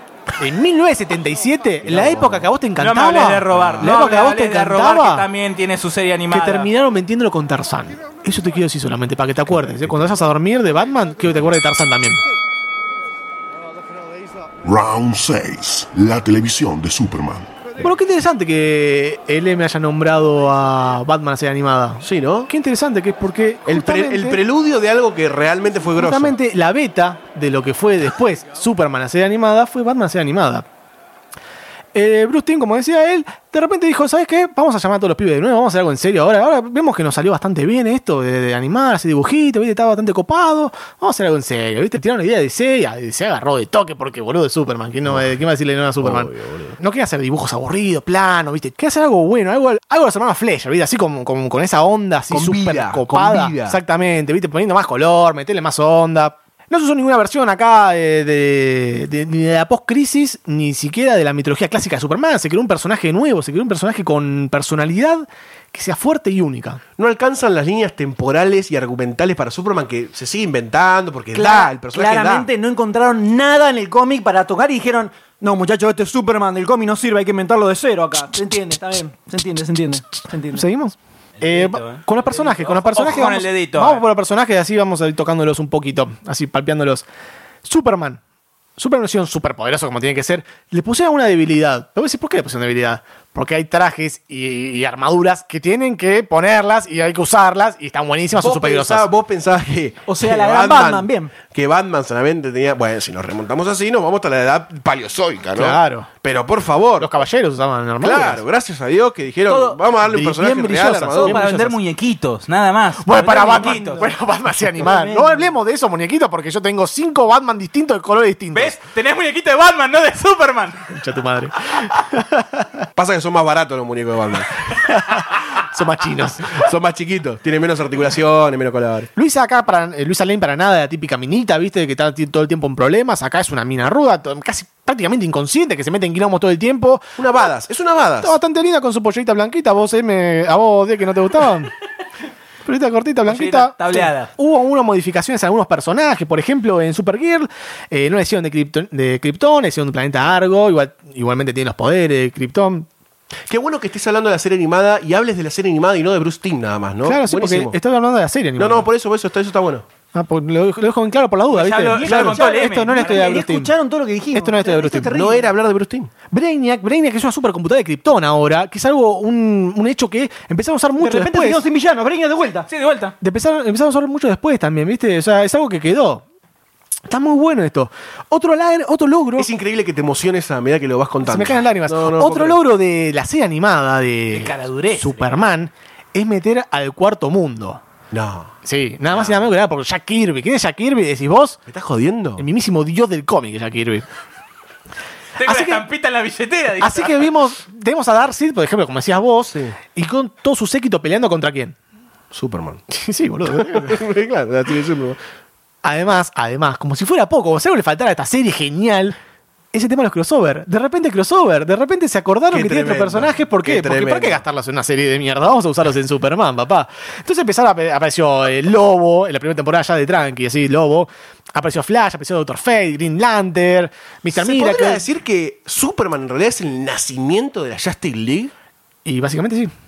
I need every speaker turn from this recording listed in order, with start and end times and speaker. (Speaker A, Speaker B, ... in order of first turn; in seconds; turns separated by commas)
Speaker A: 0.4-5.3, Speaker B: 1.8-2.5, Speaker C: 2.8-6.7, Speaker B: 3.5-3.9, Speaker A: 6.3-12.2, Speaker B: 9.5-10.2, Speaker D: 14.6-17.7, Speaker A: 17.8-24.4, Speaker B: 22.0-22.5, Speaker B: 23.7-26.4, Speaker A: 26.0-30.7, Speaker A: 31.9-66.8, Speaker B: 46.0-46.8, Speaker B: 52.3-53.8, Speaker B: 67.0-72.5, Speaker E: 71.3-80.7, Speaker A: 80.5-87.1, Speaker C: 81.4-84.0, Speaker A: 87.6-88.2, Speaker A: 88.8-99.1, Speaker B: 98.3-107.1, Speaker E: 100.1-101.3, Speaker A: 105.5-106.1, Speaker A: 107.0-108.4, Speaker B: 108.0-111.5, Speaker C: 109.5-109.8, Speaker A: 110.0-111.8, Speaker C: 111.1-114.1, Speaker A: 113.0-118.8, Speaker E: 113.3-114.1, Speaker E: 114.8-115.5, Speaker C: 118.5-120.9, Speaker A: 120.9-122.8, Speaker B: 123.0-124.8, Speaker A: 124.7-126.7, Speaker B: 126.5-129.1, Speaker A: 129.2-137.0, Speaker B: 137.2-138.3, Speaker A: 138.2-141.7, Speaker A: 142.7-152.9, Speaker C: 143.3-144.3, Speaker B: 153.5-157.8, Speaker A: 157.1-158.9, Speaker B: 158.6-159.9, Speaker A: 160.1-163.7, Speaker C: 161.5-163.3, Speaker E: 162.0-165.5, Speaker B: 162.1-162.3, Speaker A: 164.3-165.2, Speaker B: 165.1-166.1, Speaker A: 166.3-171.6, Speaker E: 171.0-172.7, Speaker C: 172.7-173.2, Speaker A: 173.2-176.2, Speaker A: 177.1-179.5, Speaker B: 179.4-182.6, Speaker A: 181.2-187.8, Speaker C: 184.3-185.3, Speaker B: 188.1-188.5, Speaker A: 188.7-191.6, Speaker B: 191.7-192.4, Speaker A: 192.4-194.1, Speaker C: 195.4-197.3, Speaker A: 195.4-195.8, Speaker A: 196.8-201.8, Speaker B: 199.5-199.8, Speaker B: 202.3-202.8, Speaker A: 202.9-204.1, Speaker B: 203.5-205.2, Speaker A: 205.8-209.2, Speaker A: 209.7-225.1, Speaker B: 212.5-214.4, Speaker B: 224.3-228.5, Speaker A: 229.1-229.7